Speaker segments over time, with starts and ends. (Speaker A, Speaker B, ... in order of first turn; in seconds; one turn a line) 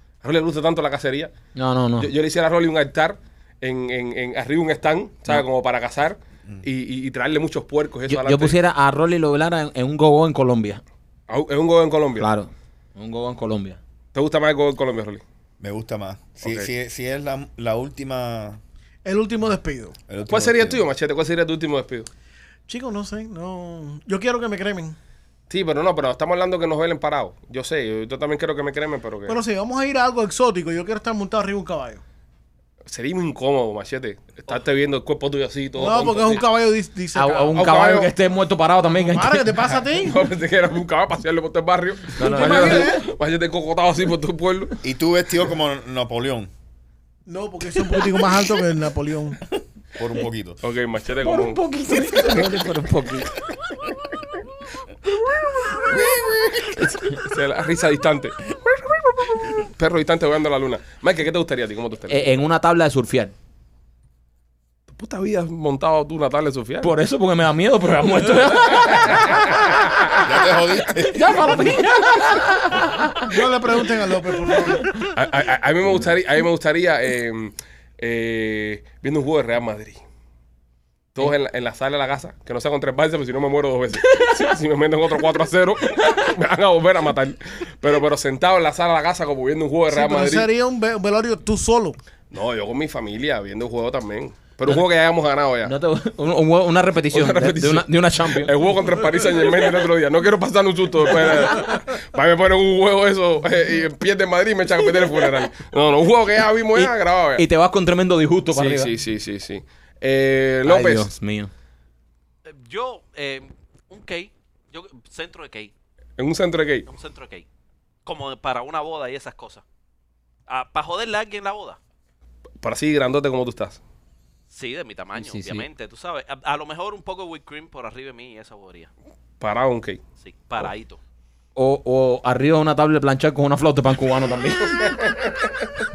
Speaker A: 0.2-1.3
Speaker B: 1.6-2.1
Speaker A: 2.0-8.6
Speaker B: 8.1-10.8
Speaker A: 11.3-12.3
Speaker B: 12.2-13.8
Speaker A: 14.1-15.2
Speaker C: 15.6-18.6
Speaker A: 16.4-16.7
Speaker D: 19.1-20.0
Speaker C: 20.1-20.9
Speaker A: 20.3-22.1
Speaker D: 22.7-25.0
Speaker A: 25.5-29.4
Speaker D: 29.3-32.0
Speaker A: 32.9-36.5
Speaker D: 35.8-37.6
Speaker B: 37.1-39.7
Speaker A: 37.5-38.1
Speaker D: 39.0-40.2
Speaker A: 39.9-44.8
Speaker B: 42.2-43.0
Speaker D: 42.2-43.0
Speaker C: 44.8-46.5
Speaker D: 47.3-49.4
Speaker C: 50.0-50.6
Speaker A: 50.6-51.6
Speaker B: 51.2-53.4
Speaker C: 55.9-56.6
Speaker A: 56.6-58.4
Speaker A: 59.3-62.3
Speaker B: 62.1-63.3
Speaker A: 64.9-66.9
Speaker B: 66.8-69.6
Speaker A: 68.7-70.2
Speaker C: 70.2-71.7
Speaker B: 71.0-73.4
Speaker D: 73.3-75.0
Speaker B: 74.5-75.0
Speaker A: 75.1-80.0
Speaker A: 81.1-90.5
Speaker B: 84.1-84.5
Speaker D: 89.9-92.0
Speaker A: 92.3-95.8
Speaker B: 95.6-98.6
Speaker A: 97.1-107.5
Speaker B: 106.7-108.9
Speaker A: 108.5-111.1
Speaker B: 110.7-111.5
Speaker E: 112.5-115.7
Speaker A: 116.2-116.9
Speaker E: 116.9-117.5
Speaker E: 118.1-119.6
Speaker E: 120.5-121.8
Speaker A: 122.6-123.8
Speaker E: 124.5-128.9
Speaker B: 125.2-125.7
Speaker A: 129.4-130.0
Speaker E: 130.2-131.0
Speaker B: 131.6-135.0
Speaker A: 134.8-135.5